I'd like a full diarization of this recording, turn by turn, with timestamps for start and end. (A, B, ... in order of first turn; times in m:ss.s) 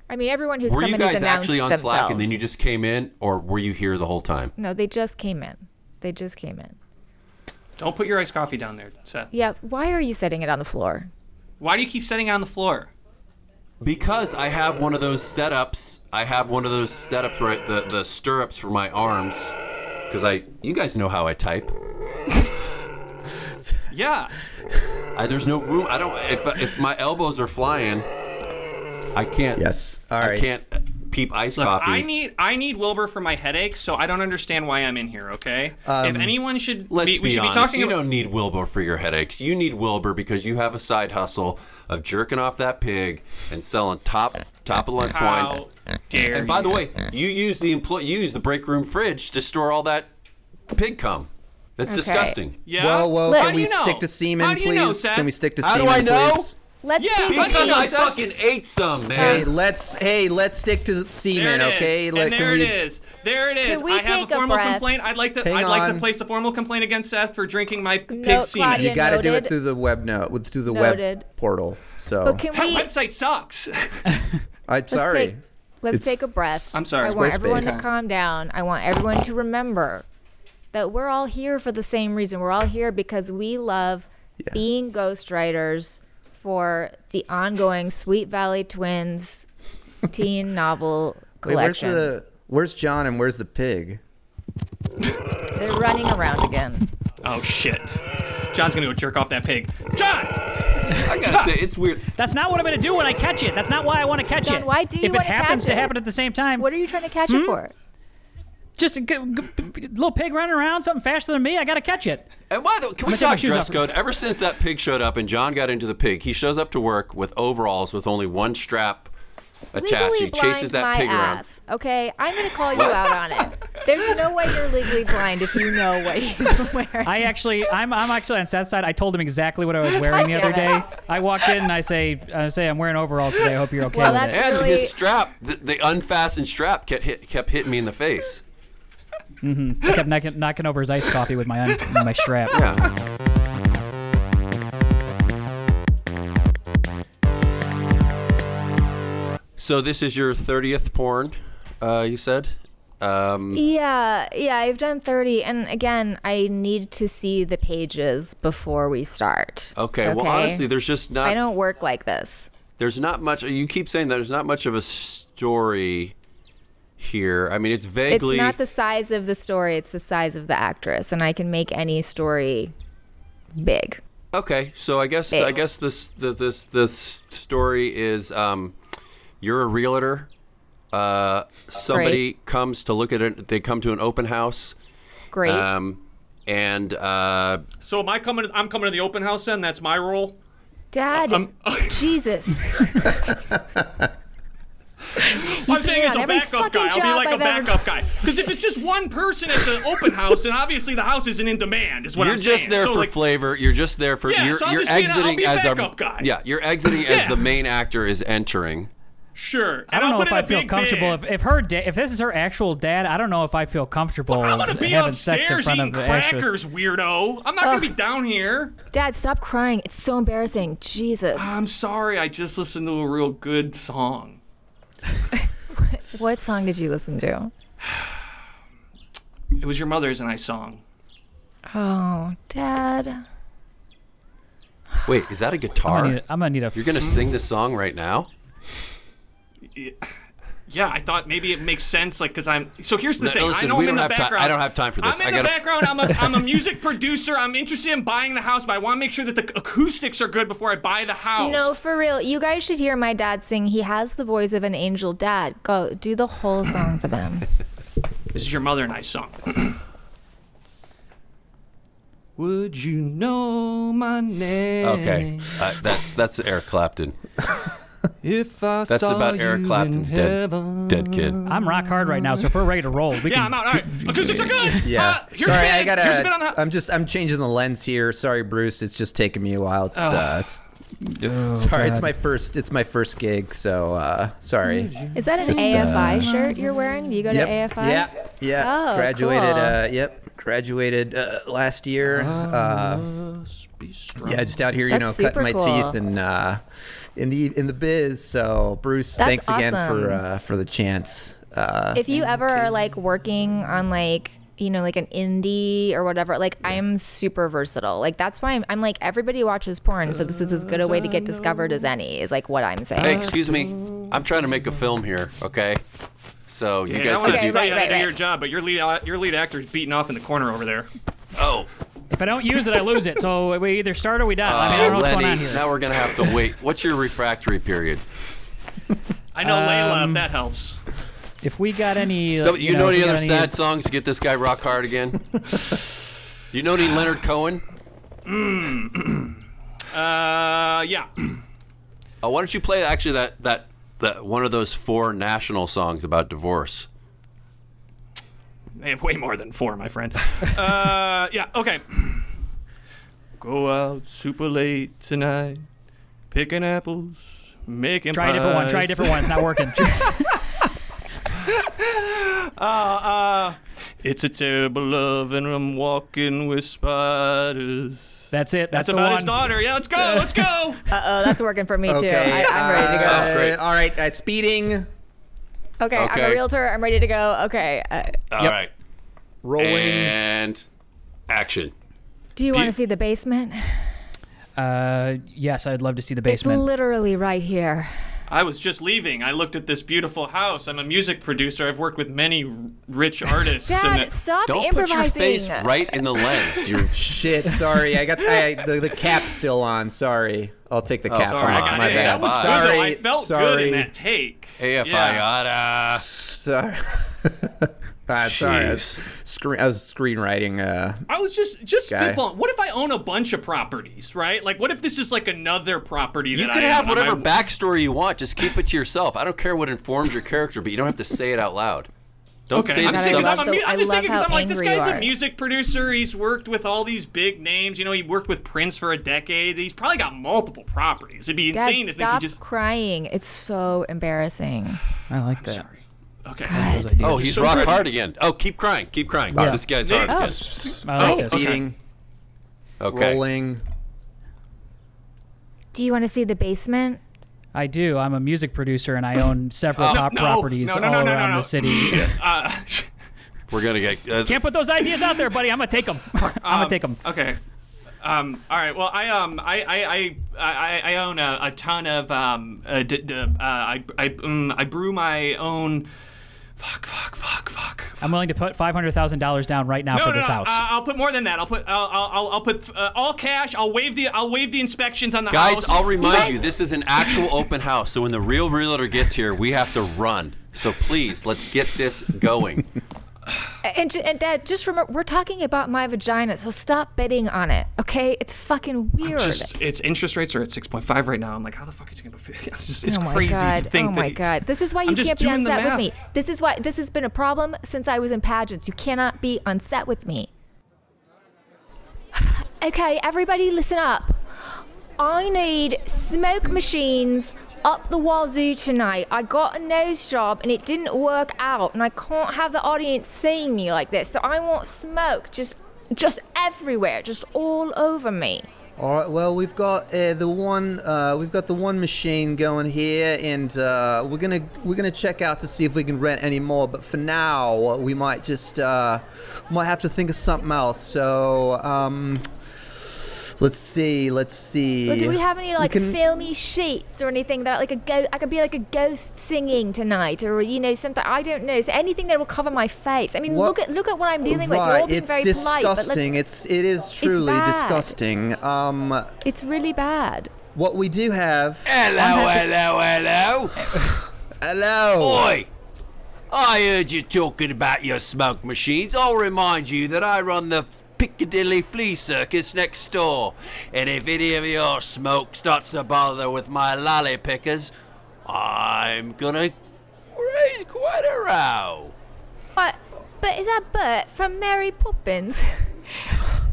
0:00.1-0:02.3 A
0:00.6-0:04.5 B
0:04.6-0:06.8 A
0:07.8-0:09.3 C
0:09.3-0:11.1 A
0:11.6-0:12.9 C
0:13.8-0:19.5 B
0:20.1-0:21.7 B
0:23.9-0:24.3 C
0:25.1-0:28.1 B
0:29.1-0:29.6 B
0:29.6-0:30.4 D
0:30.2-0:32.1 B
0:31.6-0:38.0 C
0:35.8-0:36.4 D
0:36.9-0:45.6 B
0:45.1-0:46.8 C
0:46.3-0:50.1 B
0:50.7-0:52.6 B
0:51.9-0:52.4 A
0:52.6-0:55.3 C
0:52.7-0:56.5 D
0:53.2-0:53.6 A
0:55.6-0:56.5 B
0:56.8-0:58.1 A
0:57.0-0:58.1 C
0:57.3-0:59.5 B
0:59.2-0:59.5 A
0:59.2-1:02.8 D
1:01.3-1:09.0 C
1:03.6-1:04.9 A
1:05.4-1:06.1 D
1:08.1-1:09.5 A
1:08.7-1:12.4 D
1:10.7-1:11.2 A
1:12.2-1:12.9 A
1:12.5-1:14.1 C
1:14.7-1:15.4 D
1:14.9-1:20.0 A
1:15.9-1:17.8 D
1:16.7-1:17.8 C
1:20.7-1:29.5 A
1:30.0-1:32.1 A
1:31.4-1:34.0 D
1:35.5-1:36.9 A
1:37.2-1:38.0 C
1:38.5-1:40.4 C
1:41.0-1:42.0 B
1:41.2-1:41.5 C
1:42.2-1:46.7 E
1:44.4-1:45.9 A
1:46.6-1:47.7 A
1:47.3-1:47.6 E
1:48.8-1:52.3 E
1:52.5-1:59.1 B
1:53.0-1:53.8 E
1:59.7-2:01.4 B
1:59.8-2:07.2 A
2:02.7-2:03.1 B
2:07.0-2:14.4 E
2:10.1-2:10.9 A
2:13.9-2:15.0 A
2:14.3-2:18.4 B
2:19.4-2:22.6 E
2:22.5-2:22.9 B
2:29.6-2:33.6 B
2:33.5-2:40.6 A
2:39.7-2:41.4 B
2:41.2-2:42.5 A
2:42.8-2:46.1 B
2:47.0-2:48.6 B
2:48.1-2:52.7 A
2:53.6-2:54.0 A
2:54.3-2:58.8 B
2:55.3-2:55.6 A
2:59.4-3:00.3 B
3:00.9-3:04.8 B
3:01.9-3:02.2 A
3:05.3-3:05.7 A
3:05.4-3:07.6 B
3:07.8-3:10.4 C
3:10.9-3:13.2 A
3:11.1-3:12.2 C
3:13.7-3:14.0 D
3:15.2-3:17.9 A
3:15.3-3:23.2 C
3:22.2-3:28.9 B
3:24.2-3:26.3 C
3:26.8-3:27.5 C
3:29.3-3:31.2 C
3:29.9-3:36.5 E
3:34.3-3:38.7 C
3:37.6-3:37.9 A
3:38.9-3:41.6 A
3:41.3-3:44.4 C
3:45.7-3:47.5 A
3:49.6-3:50.8 C
3:51.7-3:53.2 A
3:55.0-3:56.2 B
3:55.8-3:57.0 E
3:56.7-3:58.3 B
3:59.7-4:00.1 C
4:00.7-4:11.7 C
4:03.2-4:06.2 B
4:11.4-4:17.5 A
4:18.3-4:19.8 C
4:22.4-4:25.7 C
4:24.8-4:27.2 B
4:28.2-4:32.5 C
4:28.9-4:31.4 B
4:31.4-4:34.9 E
4:33.2-4:36.6 C
4:34.8-4:40.6 D
4:39.9-4:40.4 C
4:41.0-4:42.1 E
4:41.5-4:46.3 D
4:44.6-4:46.7 C
4:45.1-4:49.8 A
4:47.3-4:53.1 D
4:52.1-4:54.5 C
4:54.2-4:56.6 D
4:54.9-4:56.0 A
4:57.2-5:02.0 D
4:59.2-5:00.2 A
5:01.9-5:13.3 A
5:02.1-5:02.7 C
5:10.1-5:11.9 C
5:13.0-5:14.1 C
5:13.0-5:15.8 B
5:16.5-5:17.8 B
5:16.9-5:20.9 C
5:17.2-5:18.2 A
5:21.4-5:21.7 B
5:22.1-5:25.7 E
5:24.4-5:28.0 B
5:29.3-5:30.8 C
5:29.4-5:30.3 E
5:31.4-5:33.5 E
5:32.3-5:35.8 B
5:36.5-5:37.6 B
5:38.2-5:39.4 C
5:39.9-5:41.4 C
5:42.2-5:46.9 B
5:48.8-5:52.3 C
5:53.4-5:55.6 C
5:56.3-6:00.7 C
5:58.1-6:00.3 E
6:01.3-6:10.9 C
6:08.3-6:10.3 E
6:10.9-6:13.4 A
6:11.9-6:14.9 D
6:13.0-6:13.6 B
6:15.8-6:18.2 A
6:15.9-6:16.4 B
6:18.3-6:18.7 B
6:19.4-6:20.1 D
6:19.6-6:20.6 B
6:21.3-6:21.7 B
6:22.4-6:23.8 A
6:24.6-6:26.6 E
6:26.3-6:27.9 A
6:28.3-6:34.1 C
6:33.7-6:36.7 A
6:34.4-6:37.0 B
6:36.9-6:43.9 D
6:41.1-6:42.8 B
6:41.2-6:45.2 C
6:44.6-6:46.0 B
6:45.9-6:51.0 D
6:48.2-6:49.0 B
6:51.1-6:57.3 C
6:51.9-6:52.2 D
6:56.3-7:01.9 B
7:02.5-7:03.5 B
7:02.5-7:12.4 C
7:02.8-7:05.1 A
7:11.5-7:14.8 A
7:15.1-7:15.6 E
7:15.4-7:17.8 C
7:16.5-7:16.9 A
7:16.5-7:17.8 E
7:17.0-7:20.4 B
7:19.3-7:19.6 D
7:19.3-7:21.5 E
7:19.8-7:21.6 C
7:20.1-7:20.3 A
7:21.0-7:21.8 D
7:22.8-7:23.2 B
7:22.9-7:23.6 D
7:25.7-7:27.0 A
7:27.5-7:32.1 E
7:29.8-7:32.9 C
7:33.5-7:34.4 B
7:34.2-7:37.0 E
7:36.2-7:37.4 C
7:38.0-7:45.9 C
7:46.6-7:48.0 C
7:48.0-7:50.6 E
7:49.9-7:56.4 C
7:55.3-8:02.7 B
7:56.0-7:56.4 A
8:03.6-8:09.5 A
8:09.0-8:14.3 C
8:12.8-8:20.3 A
8:14.8-8:15.9 C
8:22.1-8:24.3 A
8:25.0-8:38.5 A
8:38.8-8:52.3 D
8:53.4-8:56.0 D
8:54.9-9:06.2 A
9:03.2-9:03.6 D
9:04.2-9:09.1 D
9:07.0-9:07.9 A
9:09.2-9:10.3 A
9:10.5-9:11.7 D
9:11.6-9:13.9 B
9:14.4-9:15.4 D
9:15.0-9:15.5 B
9:16.3-9:27.7 B
9:28.2-9:29.5 B
9:30.1-9:31.9 B
9:32.5-9:36.3 A